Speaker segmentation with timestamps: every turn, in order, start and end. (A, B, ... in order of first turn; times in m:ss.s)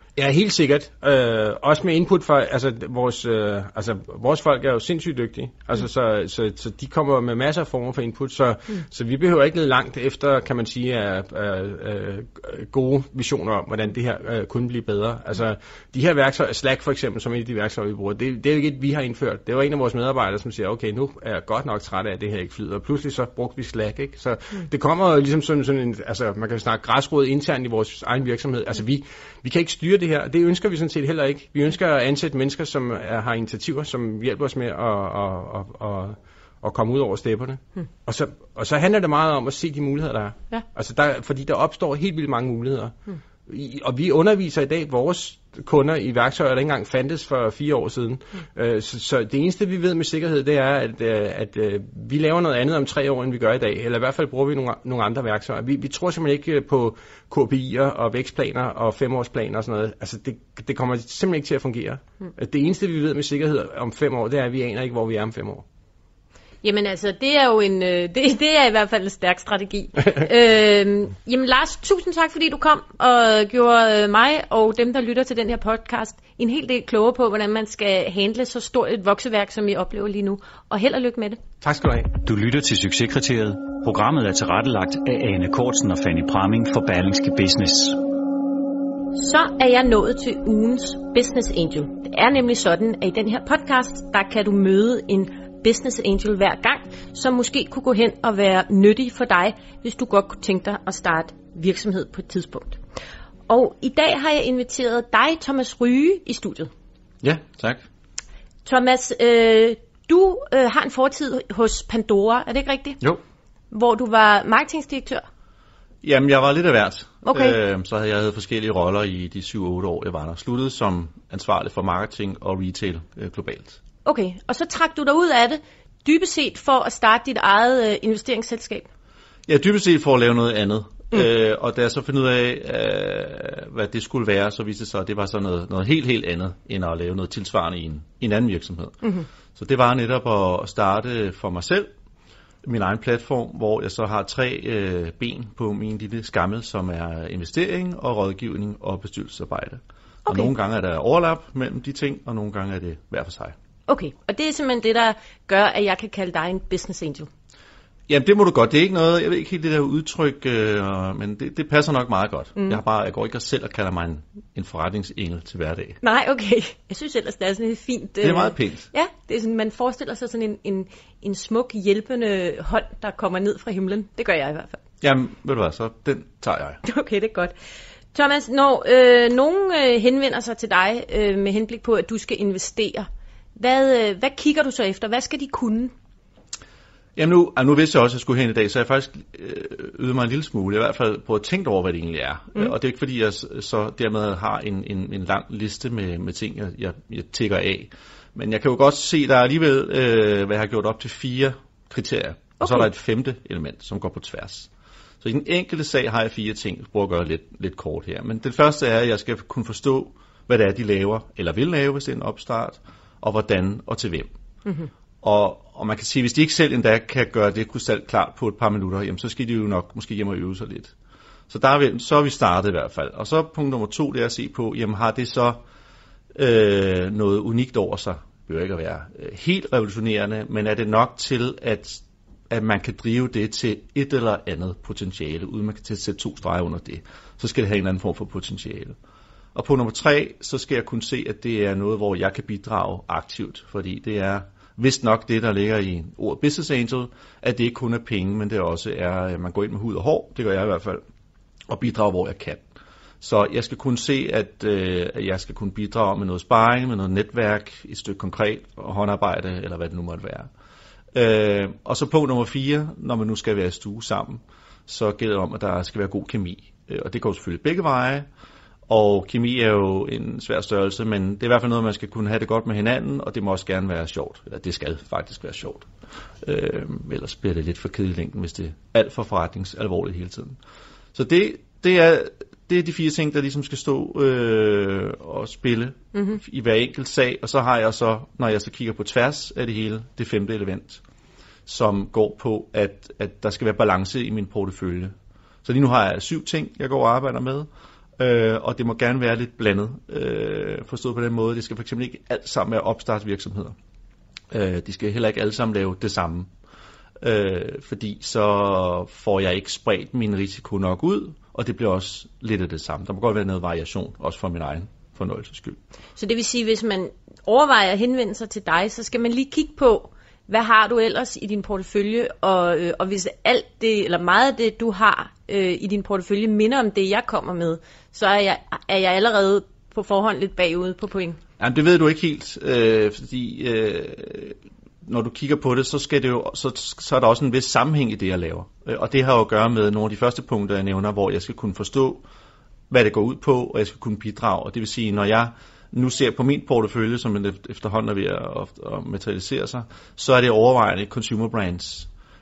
0:00.2-1:05.6 A
1:06.6-1:21.4 B
1:21.6-1:22.1 A
1:22.2-1:28.0 C
1:29.1-1:42.8 B
1:43.5-1:46.7 B
1:47.2-1:47.8 D
1:48.6-1:53.0 B
1:53.7-1:55.2 B
1:56.0-2:03.8 D
1:57.2-1:57.6 B
2:04.0-2:08.9 B
2:09.5-2:21.9 D
2:22.6-2:33.5 D
2:30.3-2:30.5 B
2:33.9-2:37.3 B
2:38.1-2:46.0 D
2:42.6-2:42.8 B
2:46.0-2:54.8 B
2:48.2-2:48.8 D
2:55.0-2:56.8 D
2:56.8-2:57.5 B
2:58.1-3:05.9 B
3:07.2-3:24.7 D
3:22.6-3:22.9 B
3:25.2-3:34.3 D
3:35.2-3:40.9 D
3:41.5-3:45.6 D
3:46.3-3:59.0 D
3:59.5-4:11.0 D
4:11.7-4:12.6 D
4:13.2-4:20.5 D
4:21.1-4:28.2 D
4:28.9-4:35.9 D
4:36.4-4:40.6 D
4:41.1-4:51.0 D
4:46.1-4:46.4 B
4:51.6-4:55.1 D
4:55.6-5:03.8 D
5:04.5-5:06.5 D
5:07.2-5:15.8 D
5:16.2-5:31.4 B
5:31.6-5:42.2 D
5:42.9-5:52.1 D